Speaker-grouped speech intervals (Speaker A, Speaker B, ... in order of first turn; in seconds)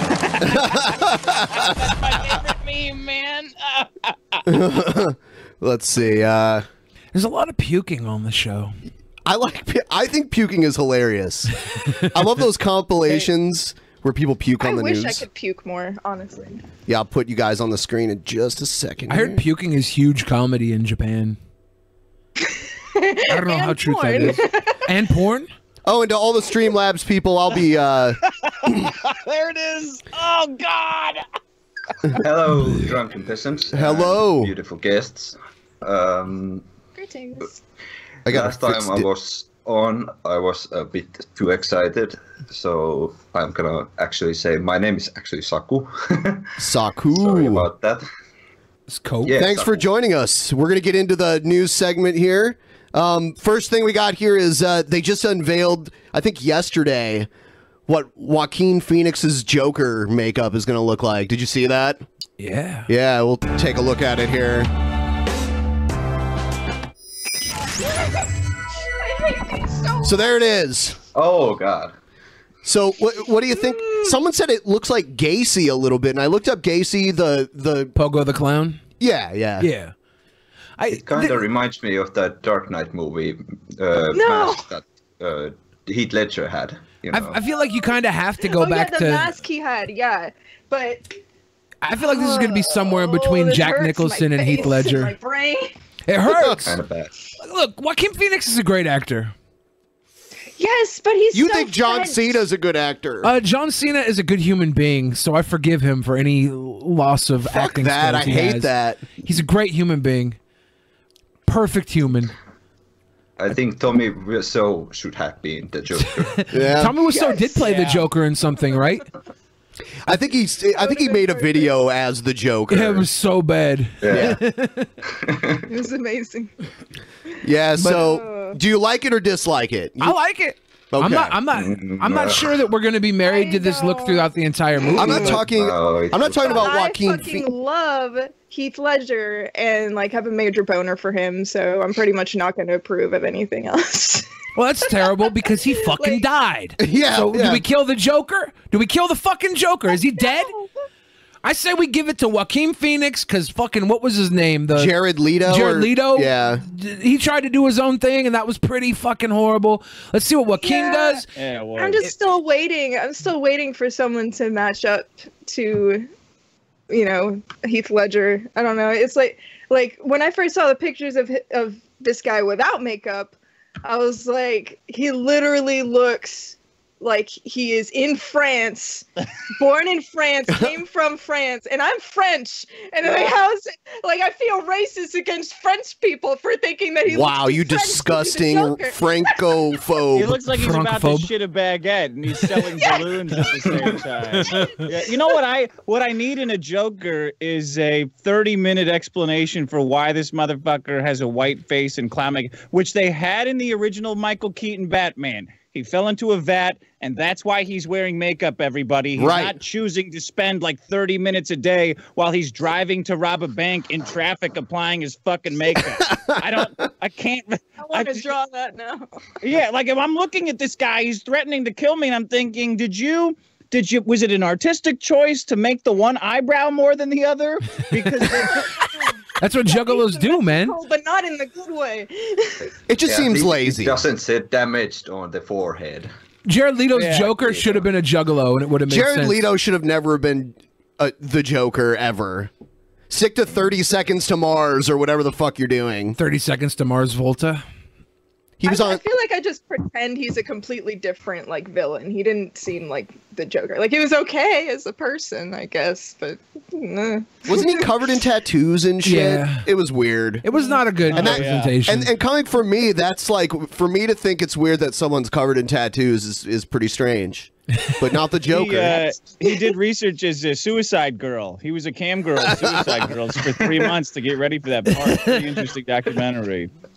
Speaker A: 0.2-4.4, 28.5-31.2, 117.6-118.0, 161.3-162.0, 190.1-218.3, 219.4-228.7, 236.9-237.4, 261.1-261.7, 268.5-276.7
Speaker B: 0.4-1.7, 4.4-6.6, 9.2-11.5, 12.1-15.2, 16.9-19.4, 25.9-28.9, 33.7-34.5, 38.2-39.1, 46.6-47.7, 49.3-57.3, 57.9-62.0, 62.9-64.7, 70.0-71.0, 72.6-77.9, 79.0-79.7, 96.3-96.5, 101.3-103.3, 107.5-109.1, 116.5-117.0, 120.1-123.0, 124.1-124.4, 127.4-130.2, 130.9-131.4, 134.9-137.5, 146.8-147.6, 154.7-156.6, 187.1-190.4, 209.2-209.6, 216.0-216.6, 232.9-234.0, 238.9-242.5, 243.1-246.2, 248.6-249.0, 257.5-260.4, 261.1-269.1, 272.4-273.0
Speaker C: 7.1-8.7, 19.1-21.4, 23.3-25.5, 48.9-49.4, 62.4-62.9, 78.0-78.8, 79.6-79.9, 80.8-81.4, 87.1-89.3, 91.8-95.1, 96.1-96.8, 97.4-99.3, 103.2-110.4, 111.5-112.3, 116.0-119.0, 122.7-124.9, 130.0-135.4, 144.5-150.5, 151.4-154.9, 155.5-161.2, 190.5-191.3, 229.4-230.7, 236.4-239.4, 246.2-247.6, 259.0-259.7, 260.4-262.1, 274.9-275.3
Speaker D: 14.6-16.6, 22.9-24.8, 37.0-37.6, 69.0-70.2, 73.5-74.1, 84.1-84.7, 88.5-91.1, 92.0-95.7, 100.6-102.4, 117.1-117.7, 120.7-121.7, 125.7-126.5, 127.8-128.6, 133.2-134.3, 134.9-135.4, 136.3-144.3, 145.1-146.2, 150.2-150.7, 160.6-161.2, 161.8-166.1, 166.9-179.0, 179.6-189.1, 217.8-219.1, 229.7-232.7, 248.6-257.9
Speaker E: 32.1-36.6, 38.3-46.5, 47.1-48.0, 49.2-49.8, 71.1-71.9, 80.9-87.4, 96.6-97.1, 113.4-116.5, 124.0-124.3, 125.2-125.7, 131.5-132.6, 135.2-136.7, 233.0-236.1, 237.4-237.8